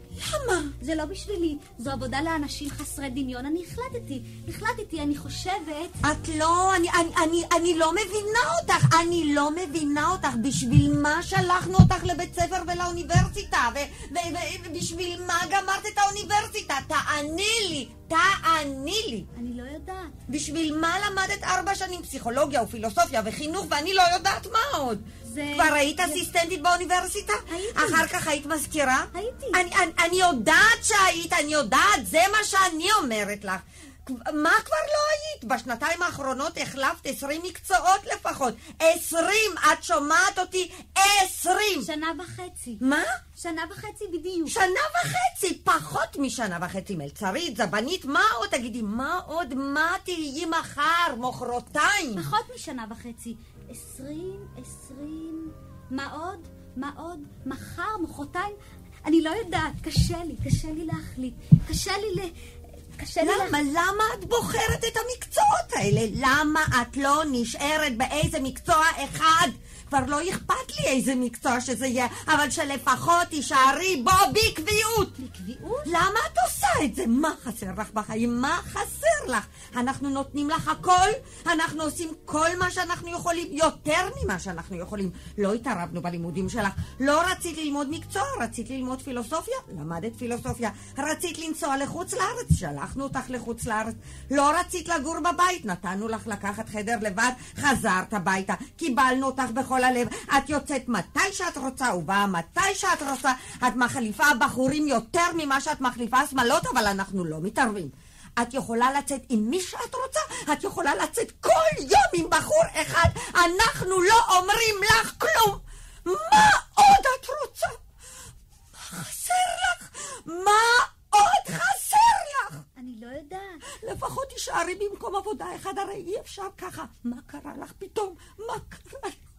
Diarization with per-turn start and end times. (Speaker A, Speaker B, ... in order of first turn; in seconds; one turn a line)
Speaker A: 0.2-0.7
Speaker B: 0.8-6.0
Speaker A: 6.0-19.3
Speaker B: 19.3-20.1
Speaker A: 20.3-41.9
Speaker B: 25.2-26.2
Speaker B: 27.5-28.1
Speaker B: 29.1-29.6
Speaker B: 41.8-42.8
Speaker A: 42.8-43.2
Speaker B: 43.4-44.6
Speaker A: 44.5-52.3
Speaker B: 52.2-62.3
Speaker B: 63.0-63.6
Speaker A: 63.2-75.2
Speaker B: 75.2-75.9
Speaker A: 75.8-117.8
Speaker A: 118.8-122.7
Speaker B: 122.8-123.6
Speaker A: 123.8-129.2